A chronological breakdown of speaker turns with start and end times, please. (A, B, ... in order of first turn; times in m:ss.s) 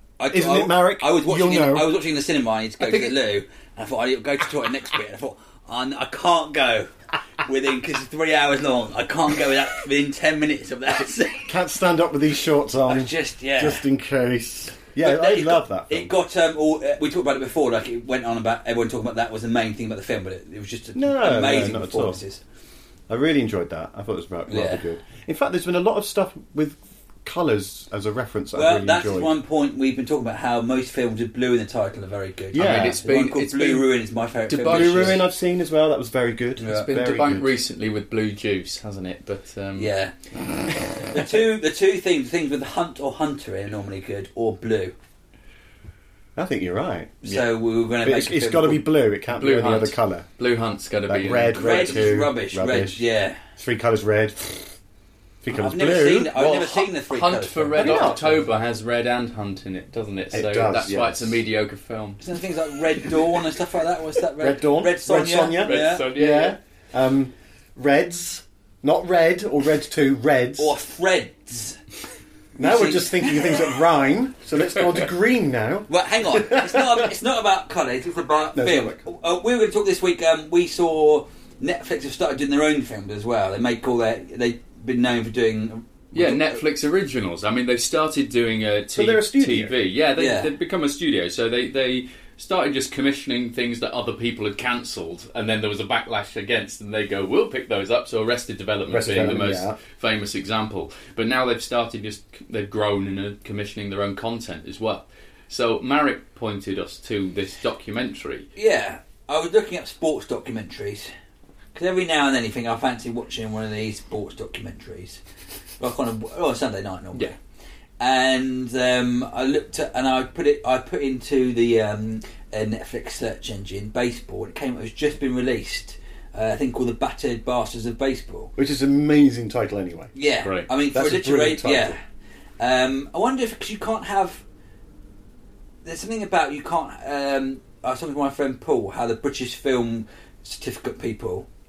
0:00.2-0:11.6 A
0:00.3-0:01.9 B
0:02.8-0:03.2 C
0:11.5-0:16.1 B
0:12.9-0:13.8 A
0:15.0-0:22.4 A
0:21.0-0:22.2 B
0:23.1-0:29.4 B
0:24.5-0:24.8 A
0:28.6-0:35.2 A
0:32.5-0:33.0 B
0:32.6-0:33.9 C
0:34.5-0:35.2 C
0:34.7-0:37.5 B
0:36.6-0:36.9 A
0:36.6-0:39.9 C
0:39.8-0:40.1 A
0:41.1-0:44.9 A
0:46.4-0:47.2 B
0:47.2-0:48.9 A
0:48.0-0:50.3 B
0:49.4-0:52.1 C
0:51.1-0:53.0 B
0:51.6-0:53.4 A
0:53.6-0:54.7 B
0:55.4-0:56.3 B
0:55.5-0:58.3 A
0:56.3-1:02.2 C
0:57.8-0:58.5 B
1:00.3-1:01.4 B
1:02.2-1:06.1 A
1:04.4-1:10.8 B
1:05.6-1:06.6 C
1:10.6-1:11.8 A
1:12.6-1:13.7 A
1:12.6-1:17.1 B
1:15.9-1:26.6 A
1:18.6-1:19.0 B
1:26.1-1:48.5 C
1:28.9-1:29.8 B
1:30.2-1:30.5 A
1:38.9-1:39.8 B
1:48.6-1:51.1 A
1:51.8-1:55.2 A
1:55.8-1:57.4 A
1:58.0-2:08.5 A
2:08.6-2:10.1 B
2:10.2-2:12.0 A
2:10.9-2:12.0 B
2:12.6-2:14.4 A
2:15.8-2:21.5 A